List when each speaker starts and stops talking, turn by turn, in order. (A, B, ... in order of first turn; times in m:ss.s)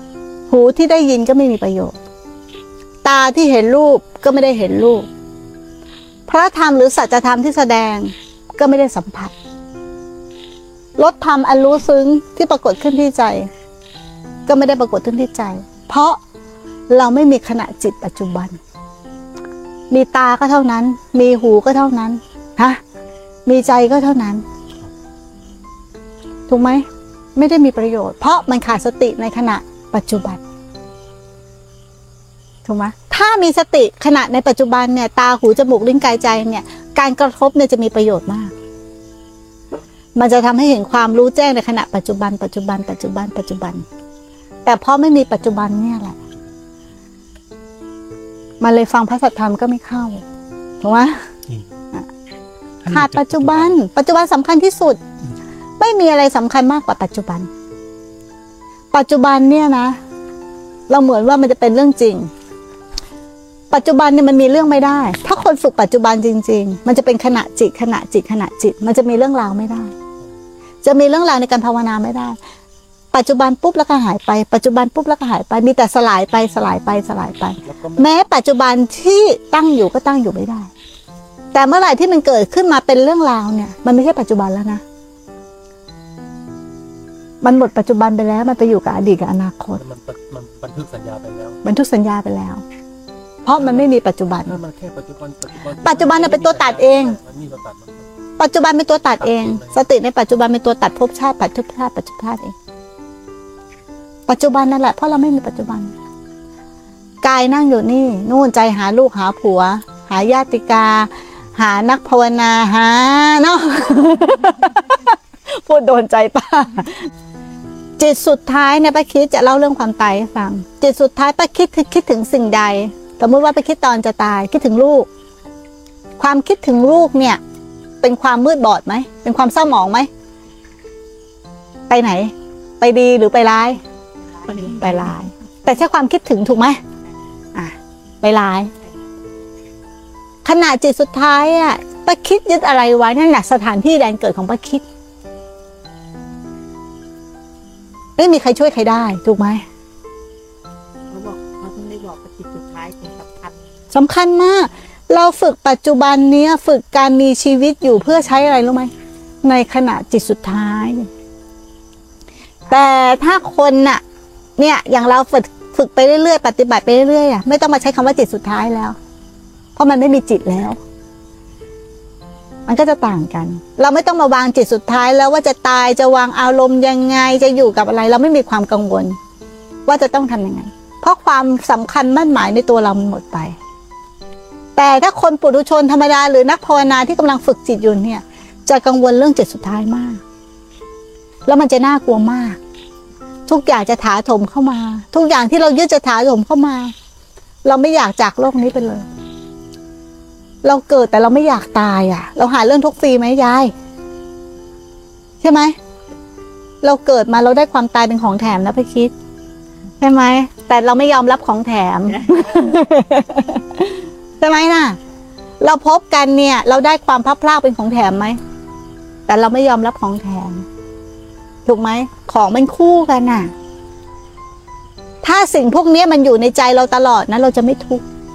0:00.5-0:01.9 A
0:03.0-0:05.1 A
0:06.3-0:09.3 A
0:11.0-0:13.5 A
0:14.5-0:16.2 A
0:16.9-0:18.6 A
0:19.9-0:22.8 A
0:23.4-0:24.4 A
0:26.5-0:30.4 A
0:32.6-0:38.5 A
0:40.2-0:43.8 A
0:44.6-0:46.2 A
0:48.6-0:50.2 A
0:50.8-0:51.2 A
0:52.8-0:53.8 B
0:52.8-0:55.0 A
0:55.8-0:57.5 A
0:58.9-1:00.0 A
1:00.9-1:02.3 A
1:03.7-1:09.9 A
1:10.8-1:12.4 A
1:13.1-1:20.7 A
1:17.6-1:18.0 B
1:21.5-1:24.8 A
1:27.4-1:29.8 A
1:29.8-1:31.6 B
1:31.6-1:32.6 A
1:33.4-1:34.6 A
1:33.6-1:33.9 B
1:34.4-1:38.0 B
1:35.8-1:37.2 A
1:38.4-1:42.5 A
1:39.3-1:39.8 B
1:44.3-1:45.9 A
1:47.2-1:57.1 A
1:58.0-2:05.1 A
2:06.2-2:07.4 A
2:08.0-2:10.1 A
2:11.9-2:13.8 A
2:14.4-2:15.2 C
2:14.5-2:16.8 A
2:17.5-2:18.7 A
2:20.4-2:24.8 A
2:28.2-2:29.6 A
2:31.1-2:33.6 C
2:33.9-2:38.9 A
2:39.4-2:41.1 A
2:42.7-2:44.0 A
2:44.6-2:49.0 A
2:49.8-2:50.8 A
2:52.7-2:59.2 A
2:59.9-3:03.6 A
3:04.8-3:10.2 A
3:11.4-3:12.6 A
3:13.5-3:16.9 A
3:17.6-3:19.1 A
3:20.6-3:23.7 A
3:25.4-3:25.7 A
3:26.8-3:29.1 A
3:30.0-3:35.0 A
3:35.6-3:38.4 A
3:39.3-3:40.6 A
3:41.6-3:43.5 A
3:45.2-3:48.0 A